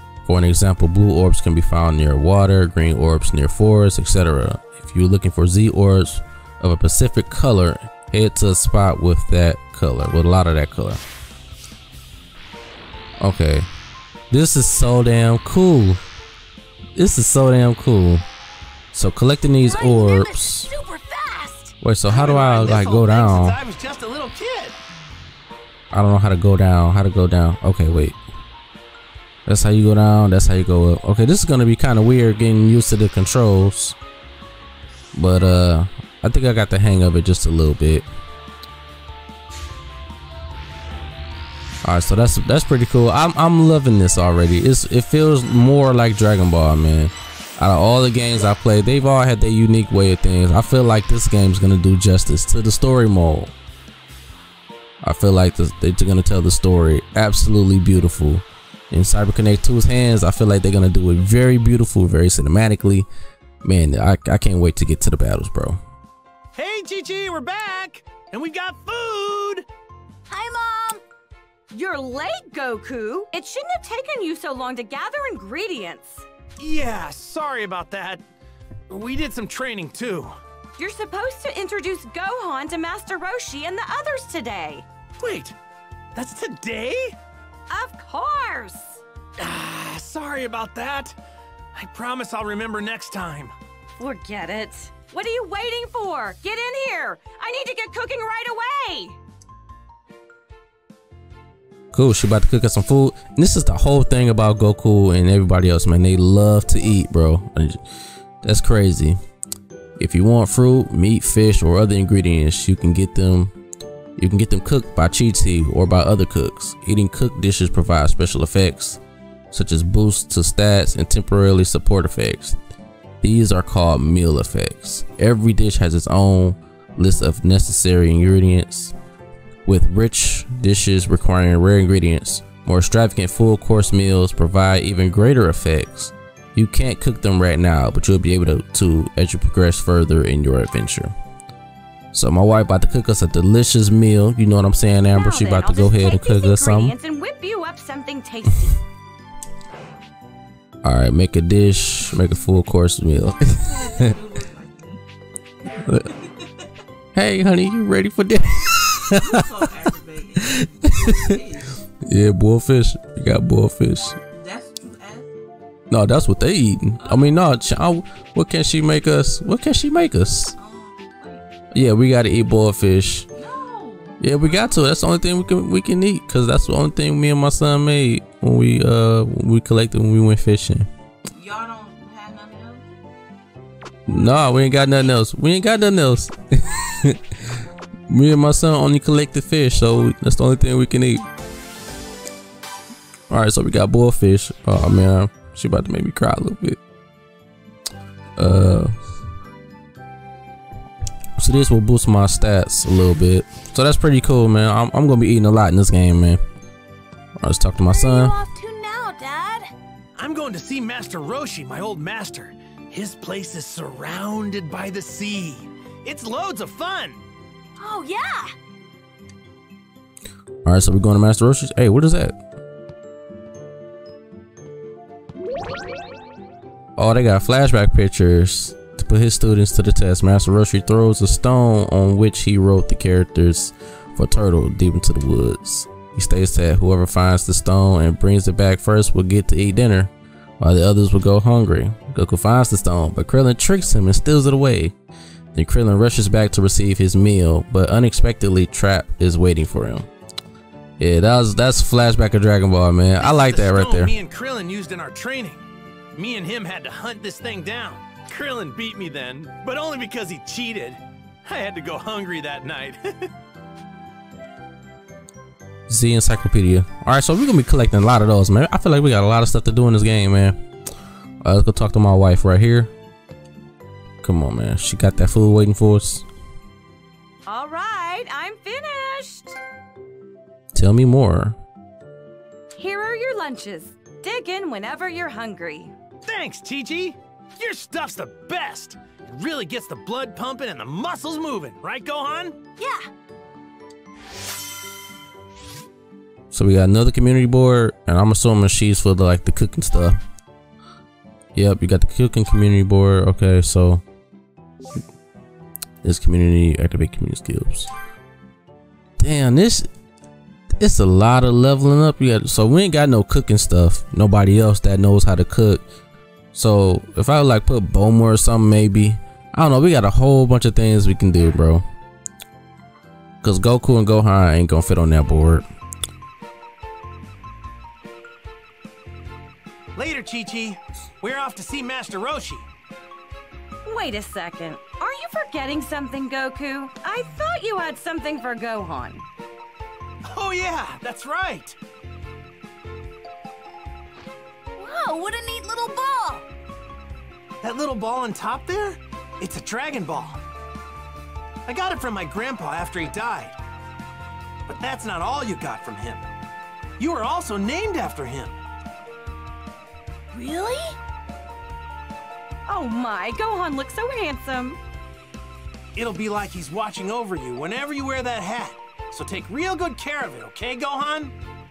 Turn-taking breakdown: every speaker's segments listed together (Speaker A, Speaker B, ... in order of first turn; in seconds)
Speaker A: 0.2-11.0, 13.2-13.7, 14.3-16.0, 16.9-18.2, 18.9-20.7, 21.8-23.6, 25.9-28.2, 29.5-34.0, 35.1-38.1, 41.8-53.5, 55.0-63.1, 63.6-65.8, 101.9-107.8, 108.4-109.2, 110.0-113.5, 114.2-119.0, 119.5-122.6, 123.2-128.9, 129.7-141.1, 142.1-146.9, 150.8-154.0, 155.8-156.1, 157.1-159.7, 160.5-161.4, 162.1-164.2, 165.9-170.6, 171.7-173.3, 174.2-180.9, 184.1-191.3, 193.3-196.8, 198.4-198.9, 201.4-206.4, 207.4-208.3, 220.6-222.4, 227.0-244.9, 245.5-250.1, 251.0-254.1, 265.9-270.6, 271.4-272.9, 274.2-276.3, 280.7-281.6, 296.5-300.2, 301.6-304.0, 306.0-307.9, 309.2-309.9, 310.8-315.8, 316.5-321.9, 323.4-325.6
Speaker B: 19.7-21.8, 70.3-71.0, 207.8-209.7, 217.8-218.5, 292.8-293.1, 344.8-346.5, 360.3-361.0
Speaker C: 22.1-24.8, 66.6-69.7, 76.6-78.3, 78.9-80.4, 85.2-85.6, 86.2-87.2, 89.4-91.2, 91.7-93.5, 210.2-217.2, 253.2-263.3, 286.2-292.6, 330.0-332.7, 340.3-341.8, 347.6-350.4, 351.7-353.6, 354.7-356.3, 357.0-358.6, 366.0-371.4
Speaker D: 71.7-76.3, 80.8-84.8, 87.7-89.0, 94.0-99.2, 145.1-148.8, 277.5-279.6, 282.8-285.9, 333.9-339.2, 362.7-364.8
Speaker E: 153.5-155.0, 155.9-156.3, 159.1-161.8, 164.3-165.3, 167.0-167.4, 170.6-171.5, 173.3-175.0, 181.3-182.9, 184.1-185.0